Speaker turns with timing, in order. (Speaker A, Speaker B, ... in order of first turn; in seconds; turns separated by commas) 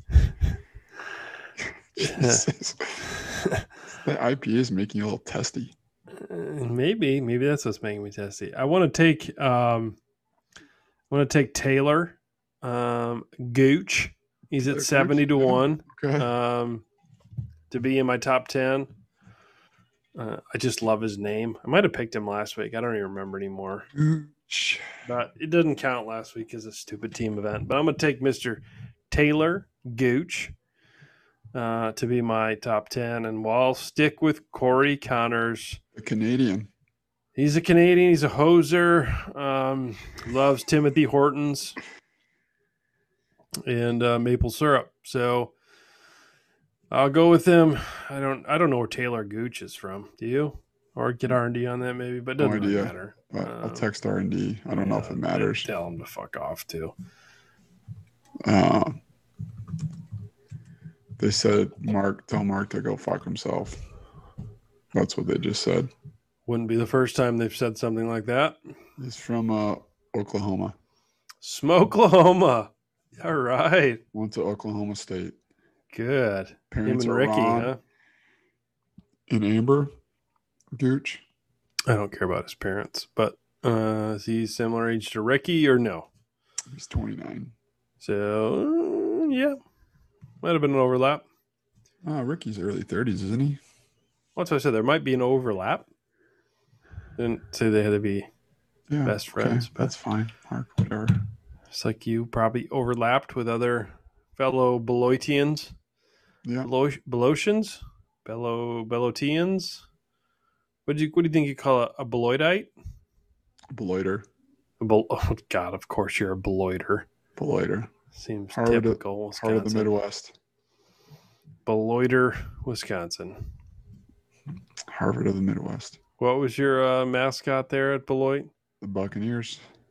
Speaker A: 1.9-3.1, Speaker B: 2.0-2.5, Speaker B: 3.1-3.7, Speaker A: 3.9-5.7, Speaker B: 6.1-10.0, Speaker B: 11.1-16.9, Speaker A: 14.6-16.3, Speaker B: 17.7-18.9, Speaker B: 20.1-23.9, Speaker A: 23.9-24.9, Speaker B: 25.1-30.5, Speaker B: 31.5-35.8, Speaker A: 36.0-36.7, Speaker B: 37.4-41.8, Speaker B: 43.7-45.5, Speaker B: 46.9-53.9, Speaker A: 52.4-55.7, Speaker B: 54.8-56.9, Speaker A: 58.5-59.0, Speaker A: 61.2-63.8, Speaker A: 64.9-65.9, Speaker B: 66.5-68.6, Speaker A: 69.0-70.8, Speaker B: 71.4-74.0, Speaker A: 74.1-75.4, Speaker B: 75.9-77.8, Speaker A: 76.7-77.7, Speaker A: 79.3-79.9, Speaker A: 80.8-81.2, Speaker B: 81.9-86.1, Speaker A: 86.7-87.5, Speaker B: 88.0-89.6, Speaker B: 90.4-91.2, Speaker A: 92.0-93.6, Speaker B: 94.4-95.9, Speaker B: 97.2-98.3, Speaker A: 98.9-101.2, Speaker B: 99.0-99.9, Speaker B: 101.7-105.7, Speaker B: 106.6-109.8, Speaker B: 110.9-112.7, Speaker A: 113.7-114.2, Speaker B: 114.8-117.1, Speaker A: 117.4-117.9, Speaker B: 118.1-119.9, Speaker A: 118.5-120.3, Speaker B: 121.7-123.4, Speaker A: 124.9-126.0, Speaker B: 126.2-128.5, Speaker A: 128.8-129.6